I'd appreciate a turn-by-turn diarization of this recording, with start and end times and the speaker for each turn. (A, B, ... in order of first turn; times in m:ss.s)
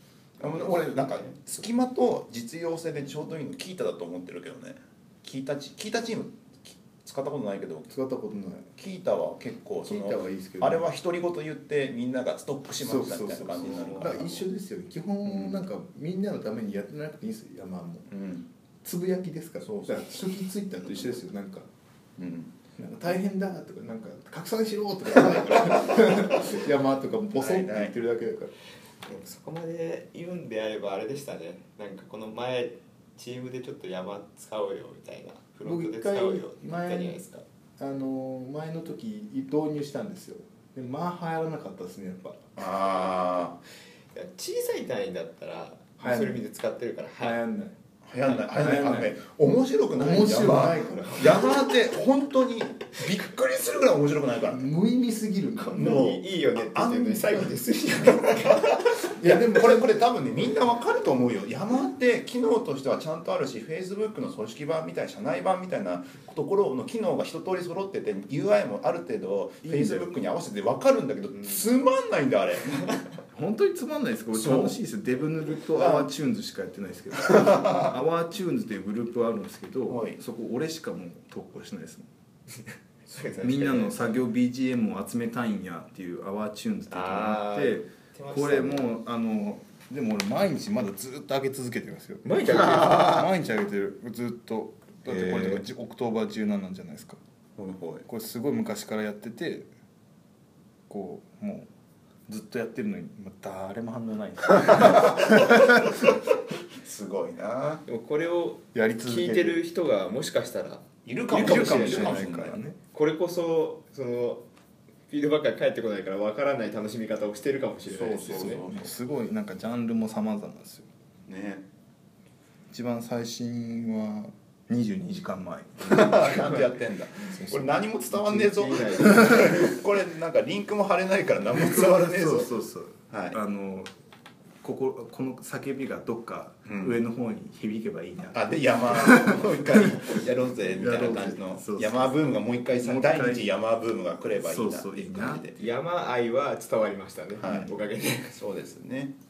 0:00.4-0:07.9 A
0:00.7-0:01.3 B
0:07.9-0:08.7 C
0:08.8-0:14.4 A
0:09.8-0:10.9 C
0:12.8-0:18.1 C
0:13.6-0:14.1 B
0:15.2-0:15.6 A
0:18.1-0:18.5 A
0:18.8-0:21.7 C
0:19.6-0:20.2 A
0:22.2-0:22.5 A
0:22.8-0:28.5 C
0:27.3-0:28.0 A
0:29.0-0:37.4 B
0:35.6-0:37.2 C
0:37.8-0:42.4 C
0:42.6-0:43.6 A
0:44.1-0:47.4 B
0:46.0-0:46.4 C
0:47.2-0:47.7 C
0:48.0-0:54.7 A
0:48.5-0:49.2 C
0:50.0-0:51.6 C
0:54.5-0:56.0 C
0:55.5-0:59.0 B
0:55.7-0:57.5 A
0:58.2-1:13.0 A
0:59.2-1:00.1 C
1:09.6-1:10.1 C
1:13.3-1:22.1 C
1:14.3-1:14.8 A
1:15.7-1:16.1 A
1:17.2-1:17.9 A
1:19.9-1:20.2 A
1:23.0-1:24.2 B
1:23.4-1:37.2 C
1:26.9-1:28.9 B
1:32.2-1:33.2 B
1:32.4-1:33.3 A
1:35.1-1:35.6 B
1:37.6-1:38.0 A
1:38.0-1:39.7 C
1:40.9-1:41.7 C
1:42.3-1:45.9 C
1:44.7-1:46.1 A
1:46.8-1:47.8 A
1:47.8-1:52.3 B
1:48.7-1:49.6 C
1:51.0-1:52.6 A
1:51.3-1:52.8 C
1:52.9-1:54.5 B
1:55.1-1:58.6 B
1:57.9-1:58.9 A
1:58.3-2:00.9 C
2:01.2-2:01.6 A
2:02.7-2:06.7 C
2:05.8-2:12.5 A
2:07.3-2:07.7 C
2:08.1-2:09.8 B
2:11.5-2:13.9 C
2:13.1-2:13.4 A
2:14.6-2:23.5 C
2:16.6-2:17.0 A
2:18.3-2:25.6 A
2:24.3-2:25.5 C
2:25.6-2:28.4 B
2:27.4-2:27.8 A
2:28.3-2:29.1 A